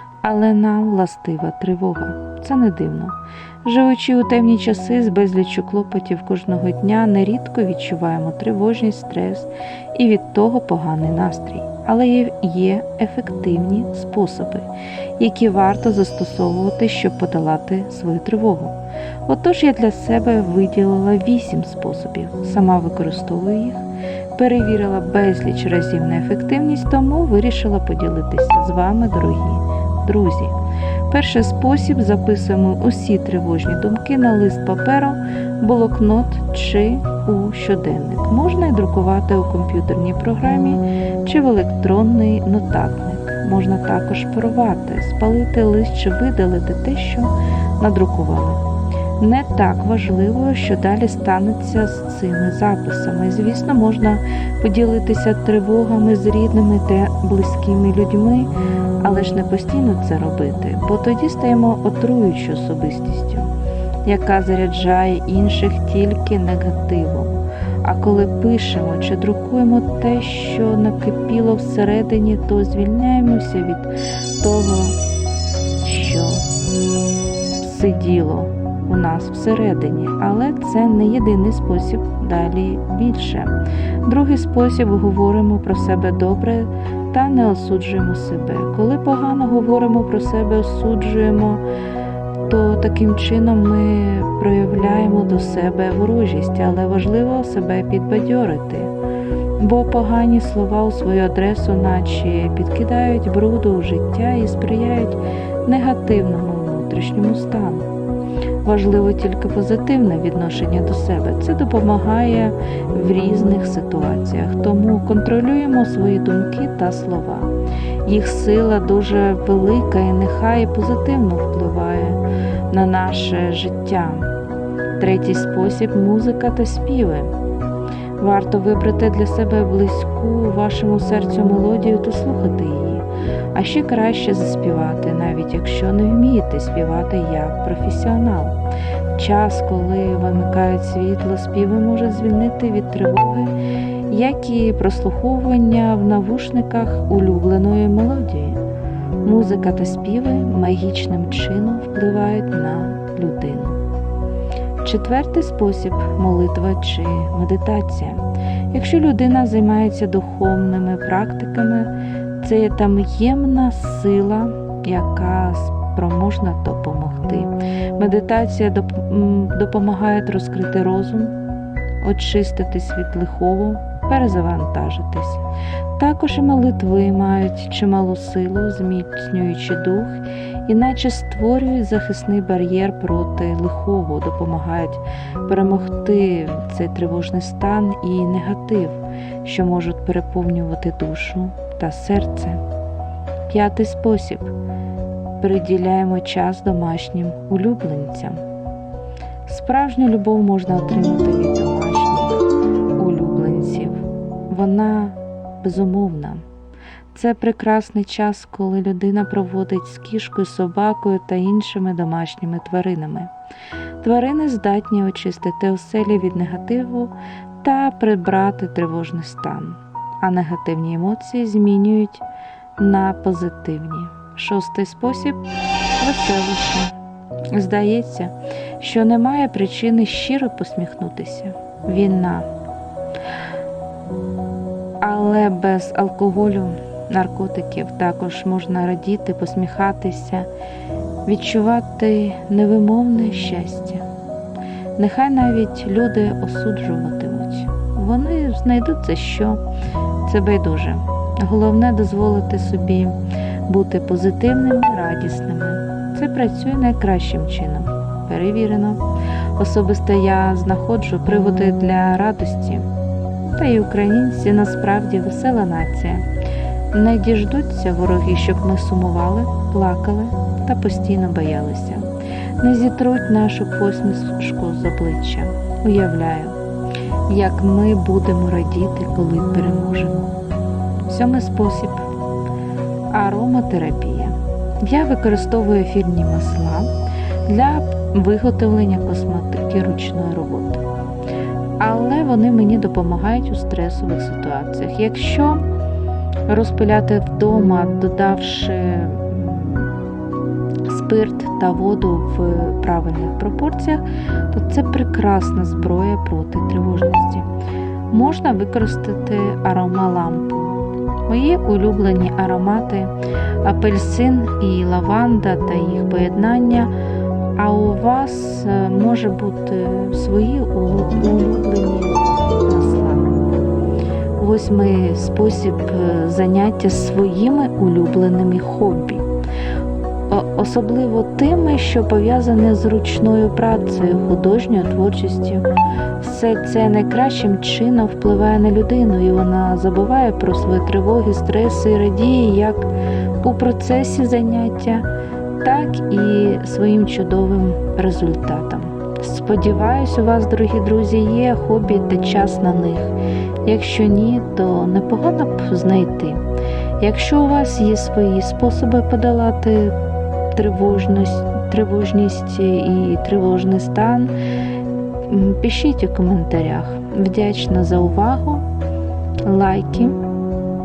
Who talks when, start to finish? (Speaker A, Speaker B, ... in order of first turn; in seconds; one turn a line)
Speaker A: 0.2-23.8
Speaker A: 24.4-30.6
Speaker A: 31.1-48.6
Speaker A: 49.2-58.5
Speaker A: 59.0-63.5
Speaker A: 64.0-75.0
Speaker A: 75.8-76.5
Speaker A: 77.6-91.6
Speaker A: 92.5-98.9
Speaker A: 99.6-107.9
Speaker A: 108.6-117.5
Speaker A: 118.0-124.3
Speaker A: 125.0-127.3
Speaker A: 128.2-138.6
Speaker A: 139.2-143.6
Speaker A: 144.1-148.6
Speaker A: 149.2-153.8
Speaker A: 154.8-171.4
Speaker A: 172.0-175.4
Speaker A: 176.0-192.6
Speaker A: 193.5-194.5
Speaker A: 195.4-198.4
Speaker A: 199.5-202.5
Speaker A: 203.0-206.4
Speaker A: 207.1-213.3
Speaker A: 214.0-222.2
Speaker A: 222.8-225.4
Speaker A: 226.0-226.9
Speaker A: 227.5-232.5
Speaker A: 235.0-240.5
Speaker A: 241.3-244.0
Speaker A: 245.0-249.6
Speaker A: 250.2-259.0
Speaker A: 259.6-262.9
Speaker A: 263.6-266.2
Speaker A: 266.9-272.1
Speaker A: 272.6-276.6
Speaker A: 277.3-280.3
Speaker A: 281.1-282.1
Speaker A: 283.1-286.9
Speaker A: 287.5-290.8
Speaker A: 291.8-295.6
Speaker A: 296.5-299.9
Speaker A: 300.9-307.5
Speaker A: 308.1-316.9
Speaker A: 317.6-323.4
Speaker A: 324.4-329.2
Speaker A: 330.3-335.7
Speaker A: 336.2-342.9
Speaker A: 343.4-345.1
Speaker A: 345.6-356.4
Speaker A: 357.0-359.9
Speaker A: 360.6-364.3
Speaker A: 365.3-368.7
Speaker A: 369.5-370.2